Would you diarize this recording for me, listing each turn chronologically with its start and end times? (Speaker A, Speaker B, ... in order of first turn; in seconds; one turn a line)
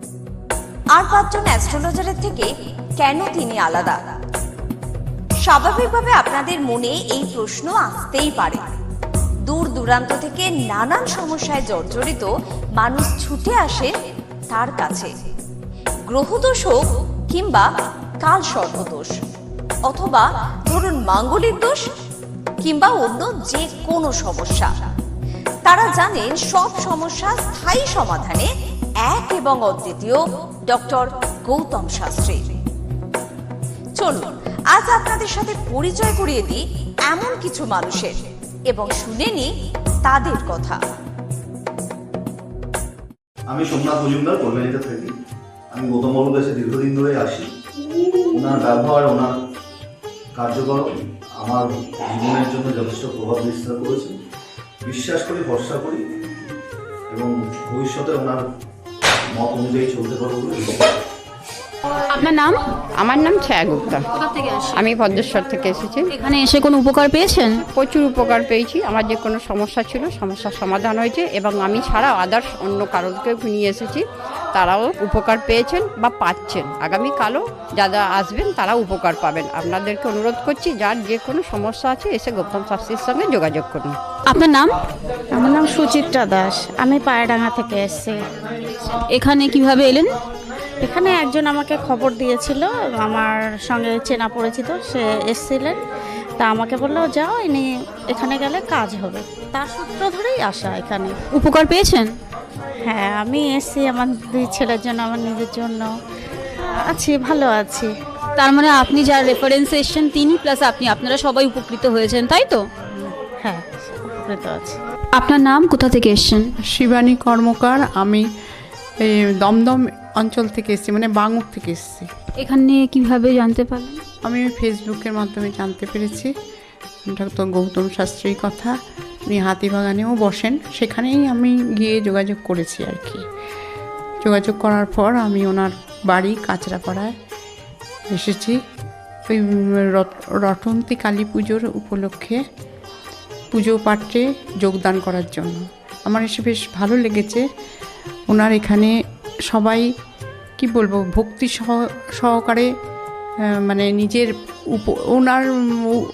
Speaker A: 0.9-2.5
Speaker A: 3.0-4.0
Speaker A: 5.4-8.7
Speaker A: 9.5-12.3
Speaker A: 12.8-13.9
Speaker A: 14.5-15.1
Speaker A: 16.1-17.7
Speaker A: 18.2-19.2
Speaker A: 19.9-21.8
Speaker A: 22.6-24.9
Speaker A: 25.6-28.5
Speaker A: 29.1-32.5
Speaker A: 34.0-38.2
Speaker A: 38.7-39.5
Speaker A: 40.0-40.8
Speaker B: 43.5-45.1
Speaker B: 45.7-47.5
Speaker B: 48.3-49.3
Speaker B: 50.4-54.1
Speaker B: 54.8-56.0
Speaker B: 57.1-58.4
Speaker B: 59.4-60.8
Speaker C: 63.0-64.0
Speaker C: 64.7-66.1
Speaker D: 66.2-67.5
Speaker C: 67.7-83.9
Speaker D: 84.3-84.7
Speaker E: 85.3-88.2
Speaker D: 89.1-90.1
Speaker E: 90.8-95.8
Speaker E: 96.4-101.2
Speaker D: 101.3-102.1
Speaker E: 102.8-105.9
Speaker E: 106.8-107.9
Speaker D: 108.4-112.6
Speaker E: 112.9-114.8
Speaker D: 115.3-115.8
Speaker F: 116.8-118.2
Speaker F: 119.5-122.1
Speaker D: 122.4-124.0
Speaker F: 124.3-126.3
Speaker F: 127.1-128.7
Speaker F: 129.3-133.2
Speaker F: 134.2-137.1
Speaker F: 138.2-138.5
Speaker F: 139.9-142.3
Speaker F: 143.5-145.6
Speaker F: 146.1-147.4
Speaker F: 148.3-148.9
Speaker F: 149.5-149.8
Speaker F: 150.6-152.6
Speaker F: 153.7-154.3
Speaker F: 154.8-155.4